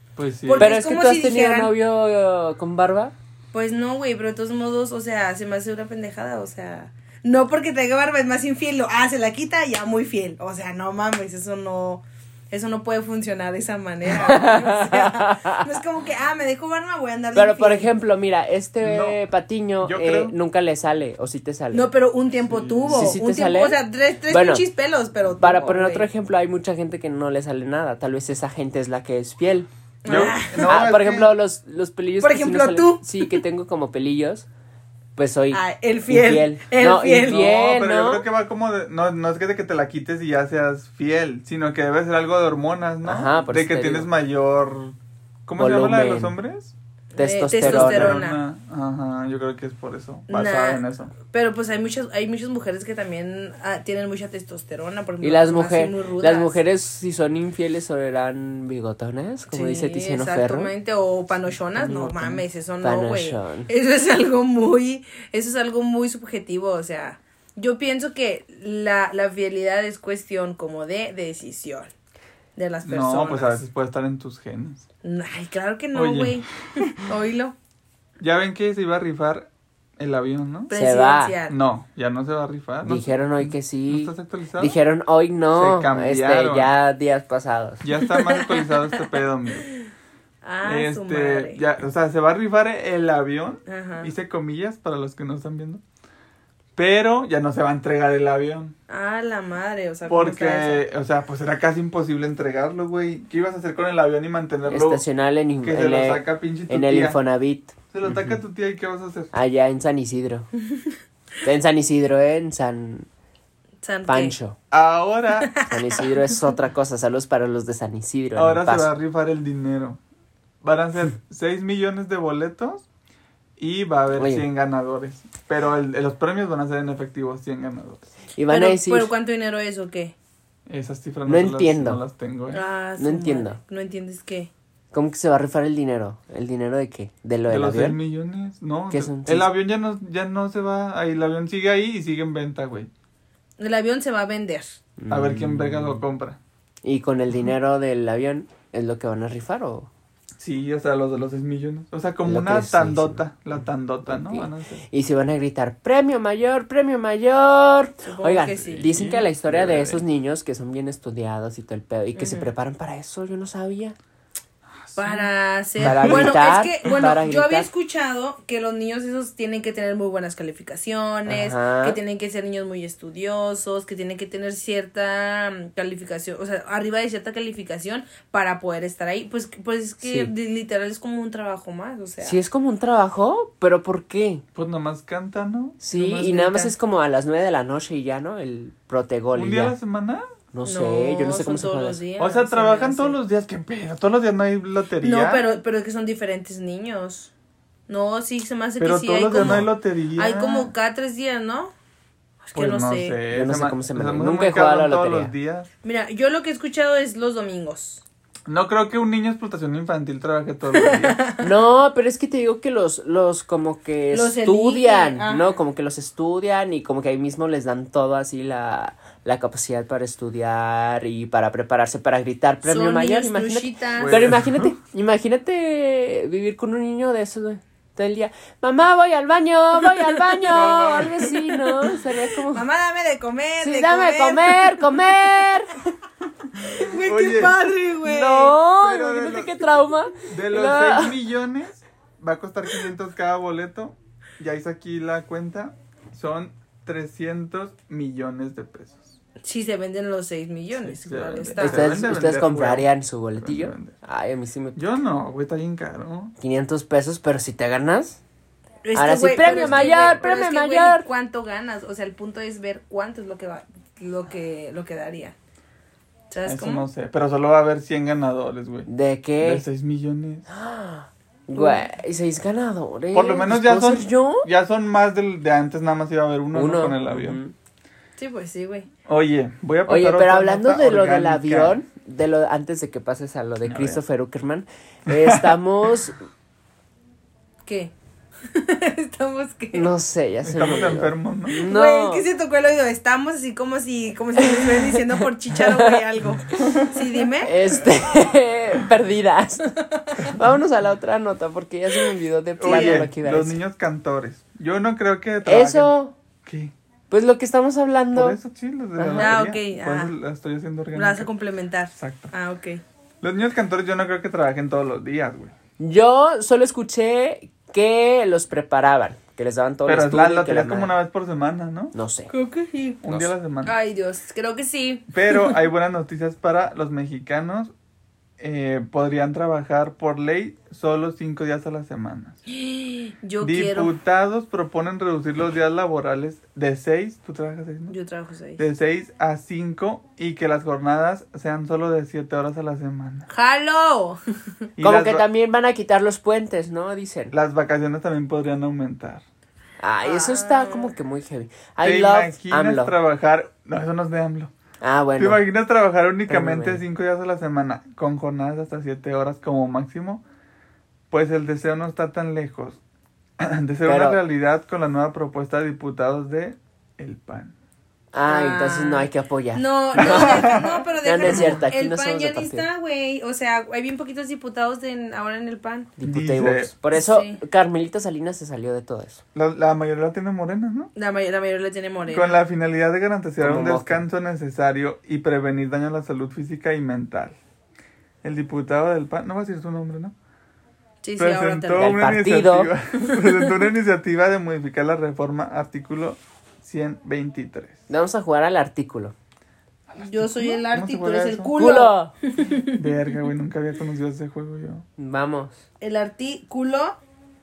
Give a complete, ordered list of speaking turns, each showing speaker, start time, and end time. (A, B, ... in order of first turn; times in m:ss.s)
0:00.2-0:00.7 A
0:00.4-0:01.8 B
0:00.6-0:03.1 C
0:03.5-0:17.9 B
0:14.2-0:15.6 C
0:17.4-0:21.9 C
0:18.8-0:19.2 A
0:19.8-0:20.4 A
0:21.7-0:26.1 B
0:22.5-0:23.2 A
0:22.9-0:23.8 C
0:24.3-0:24.7 C
0:25.4-0:34.5 C
0:30.0-0:30.8 B
0:30.1-0:31.4 A
0:32.2-0:33.4 B
0:35.2-0:38.3 C
0:35.5-0:37.5 B
0:37.2-0:45.0 A
0:43.0-0:44.1 C
0:45.5-0:46.7 A
0:45.6-0:46.4 C
0:47.2-0:48.4 B
0:47.2-0:48.2 C
0:47.5-0:51.2 A
0:50.3-0:56.6 B
0:55.2-1:00.7 C
0:59.5-1:11.9 B
1:01.7-1:03.7 C
1:12.6-1:13.6 B
1:12.8-1:14.9 A
1:15.0-1:17.6 B
1:15.9-1:16.5 A
1:18.2-1:20.7 A
1:20.7-1:21.6 B
1:20.7-1:21.4 C
1:21.5-1:24.8 A
1:22.8-1:27.8 C
1:25.5-1:26.7 A
1:27.8-1:29.7 A
1:28.0-1:29.0 B
1:30.4-1:31.6 B
1:30.6-1:35.8 A
1:33.7-1:34.1 B
1:36.8-1:38.7 A
1:38.9-1:40.8 B
1:40.1-1:45.0 A
1:44.7-1:48.4 C
1:45.6-1:47.2 A
1:47.9-1:49.3 A
1:49.3-1:50.5 C
1:50.7-1:51.0 B
1:51.4-1:53.1 C
1:53.8-1:54.4 B
1:54.1-1:54.6 C
1:54.7-1:55.6 A
1:55.4-1:55.7 B
1:55.7-1:58.9 C
1:58.4-2:00.0 A
2:00.6-2:02.9 A
2:03.6-2:08.1 A
2:04.2-2:04.5 C
2:08.4-2:09.1 C
2:08.5-2:10.2 B
2:10.7-2:12.6 A
2:11.3-2:12.0 C
2:12.5-2:14.5 B
2:13.0-2:13.6 C
2:14.9-2:18.0 C
2:17.5-2:22.9 A
2:18.9-2:19.5 C
2:23.6-2:24.8 B
2:25.0-2:26.0 C
2:25.1-2:26.4 A
2:26.8-2:29.9 C
2:30.4-2:34.8 A
2:32.2-2:33.2 C
2:34.0-2:44.0 C
2:38.0-2:38.9 B
2:38.7-2:40.0 A
2:42.2-2:42.5 B
2:44.7-2:47.2 A
2:45.0-3:02.4 B
2:45.8-2:47.7 C
2:51.3-2:52.0 C
3:00.0-3:00.3 C
3:02.2-3:04.4 C
3:04.6-3:05.8 A
3:05.8-3:09.8 C
3:05.9-3:06.7 B
3:09.3-3:10.3 A
3:10.5-3:12.0 C
3:10.6-3:13.2 B
3:12.2-3:15.5 A
3:15.0-3:17.3 B
3:17.9-3:21.7 B
3:18.8-3:20.7 A
3:19.3-3:19.7 C
3:22.4-3:23.2 B
3:22.5-3:25.7 A
3:23.3-3:25.3 C
3:25.8-3:28.0 B
3:28.5-3:31.2 A
3:30.7-3:31.4 B
3:31.4-3:52.7 C
3:34.1-3:35.6 B
3:42.6-3:44.3 B
3:44.0-3:44.8 A
3:49.8-3:55.3 B
3:50.5-3:51.4 A
3:53.6-3:55.7 C
3:56.6-3:57.6 A
3:56.7-3:58.6 B
3:58.0-4:01.2 C
3:58.7-4:09.2 A
4:09.4-4:11.9 B
4:10.7-4:13.9 A
4:11.6-4:15.0 C
4:14.8-4:16.3 A
4:16.4-4:18.2 C
4:18.8-4:25.4 B
4:19.0-4:21.1 C
4:19.5-4:20.1 A
4:26.3-4:26.9 B
4:26.4-4:28.9 A
4:28.9-4:29.7 C
4:29.4-4:30.5 A
4:30.5-4:34.5 C
4:31.5-4:31.9 B
4:33.1-4:37.4 A
4:36.5-4:37.5 C
4:38.2-4:38.9 B
4:39.1-4:41.8 A
4:39.9-4:46.2 C
4:43.6-4:44.0 A
4:45.1-4:45.5 A
4:47.6-4:47.9 B
4:48.5-4:49.9 B
4:49.7-4:52.3 C
4:50.4-4:51.6 A
4:51.5-4:57.6 B
4:56.6-4:56.8 C
4:57.4-5:03.6 C
5:00.0-5:00.3 B
5:02.6-5:05.9 A
5:02.7-5:03.1 B
5:05.4-5:06.2 C
5:06.5-5:06.7 A
5:07.1-5:08.4 C
5:08.1-5:11.3 A
5:09.0-5:09.4 C
5:09.2-5:10.1 B
5:10.9-5:12.8 B
5:12.0-5:12.3 A
5:13.2-5:15.5 A
5:15.8-5:21.0 C
5:19.9-5:21.9 A
5:21.9-5:22.3 C
5:22.3-5:23.0 B
5:23.0-5:23.8 A
5:23.6-5:25.6 B
5:25.1-5:27.7 A
5:28.4-5:32.4 A
5:32.5-5:33.9 B
5:33.4-5:37.9 A
5:37.9-5:38.6 B
5:38.6-5:43.3 A
5:43.3-5:44.2 B
5:44.8-5:45.3 A
5:44.8-5:47.3 C
5:47.3-5:49.2 A
5:49.8-5:52.9 C
5:50.0-5:50.9 B
5:51.8-5:54.5 A
5:54.8-5:55.4 C
5:55.2-6:00.2 A
5:56.3-5:56.8 C
6:01.1-6:02.8 A
6:03.4-6:07.5 A
6:03.8-6:04.2 C
6:08.1-6:12.7 C
6:08.2-6:15.9 B
6:10.0-6:10.7 A
6:11.2-6:11.6 A
6:16.0-6:19.2 C
6:16.0-6:16.8 A
6:16.9-6:17.4 B
6:19.3-6:20.9 A
6:21.0-6:22.4 B
6:22.1-6:27.4 A
6:23.4-6:24.0 C
6:28.2-6:30.1 A
6:31.0-6:32.0 B
6:31.2-6:37.8 A
6:31.8-6:32.7 C
6:33.0-6:33.5 B
6:37.9-6:39.1 C
6:39.9-6:41.6 A
6:40.0-6:42.8 B
6:41.5-6:42.1 C
6:42.5-6:44.8 A
6:45.0-6:45.6 C
6:45.8-6:47.0 B